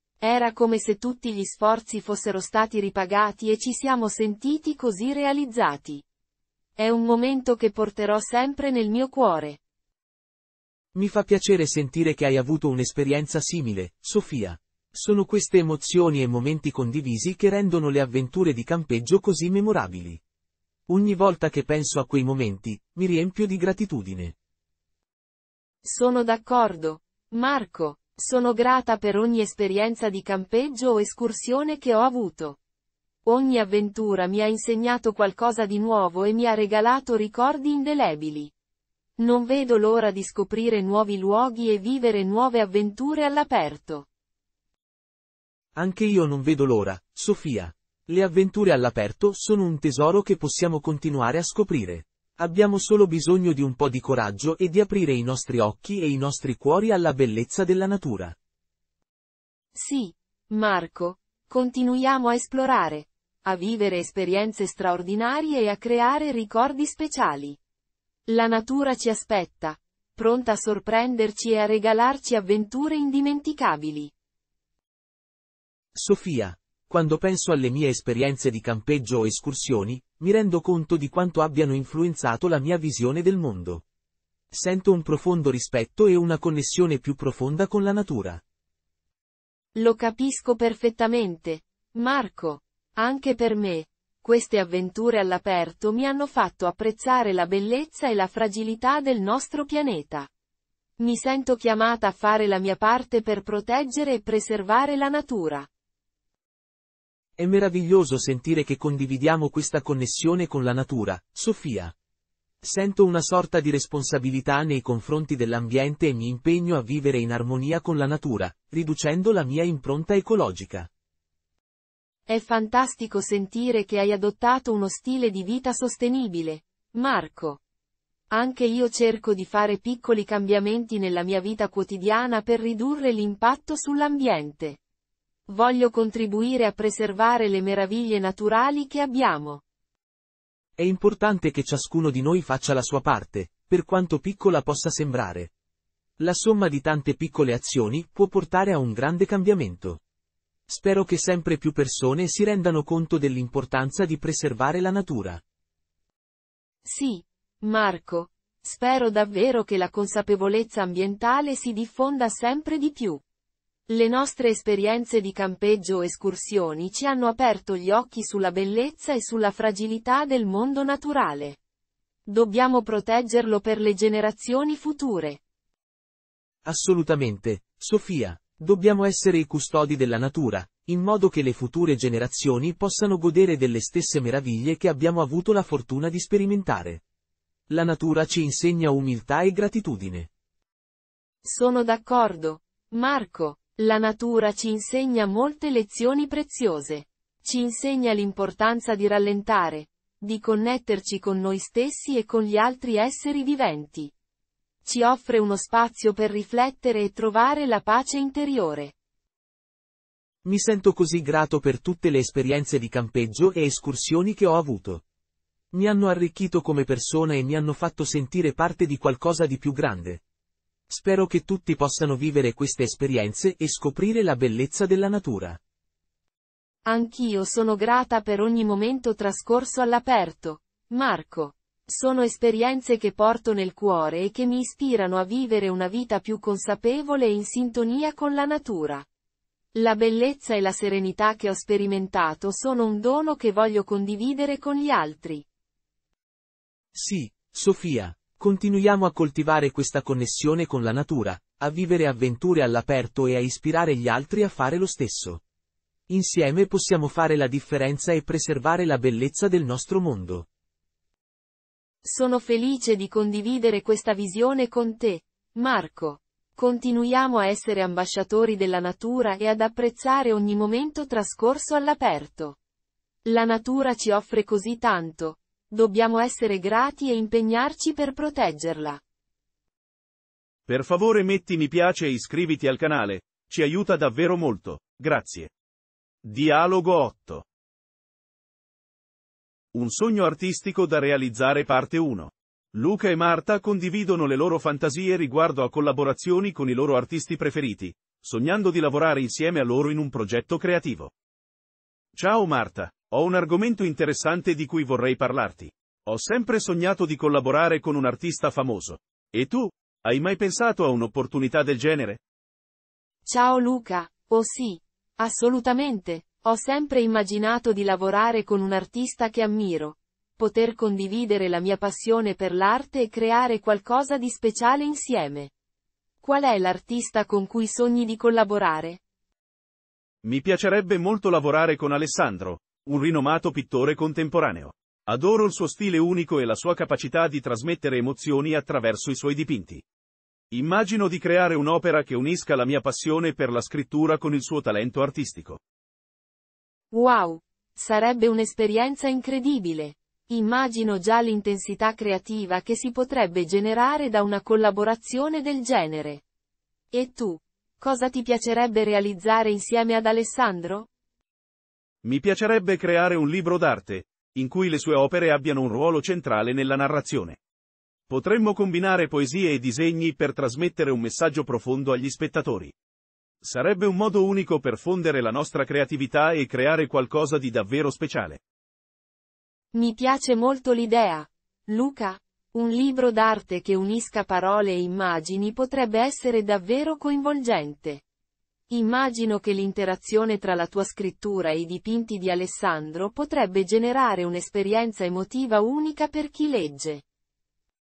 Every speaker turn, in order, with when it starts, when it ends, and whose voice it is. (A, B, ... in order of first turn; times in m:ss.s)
0:00.2-0:06.0 A
0:06.8-0:09.6 A
0:10.9-0:20.2 B
0:20.9-0:24.3 B
0:25.8-0:32.6 A
0:33.2-0:38.5 A
0:39.2-0:44.0 A
0:45.7-0:58.4 B
0:59.7-1:07.6 A
1:08.3-1:14.1 A
1:15.9-1:23.8 B
1:24.5-1:28.4 B
1:29.7-1:40.3 A
1:41.0-1:45.7 A
1:47.4-1:51.9 B
1:52.6-2:00.9 B
2:02.3-2:07.6 A
2:08.3-2:14.8 A
2:15.5-2:19.6 A
2:20.8-2:25.5 B
2:26.2-2:30.0 B
2:30.7-2:35.4 B
2:36.8-2:43.2 A
2:43.9-2:51.6 A
2:52.3-2:55.4 A
2:56.6-3:07.0 B
3:07.7-3:10.3 B
3:11.4-3:24.1 A
3:24.8-3:28.9 A
3:30.4-3:35.0 B
3:35.7-3:40.2 B
3:40.9-3:45.6 B
3:46.8-3:59.0 A
3:59.7-4:05.4 A
4:06.9-4:15.4 B
4:16.1-4:20.4 B
4:22.0-4:32.6 A
4:33.2-4:39.0 A
4:40.7-4:45.5 C
4:46.2-4:47.4 C
4:49.7-5:01.1 C
5:02.1-5:12.2 C
5:13.2-5:25.5 A
5:26.2-5:29.0 A
5:30.2-5:39.8 C
5:40.5-5:45.6 C
5:46.9-5:56.2 A
5:56.9-6:00.9 A
6:02.0-6:07.4 C
6:08.1-6:12.7 C
6:13.4-6:18.4 C
6:19.7-6:28.0 A
6:28.7-6:37.0 A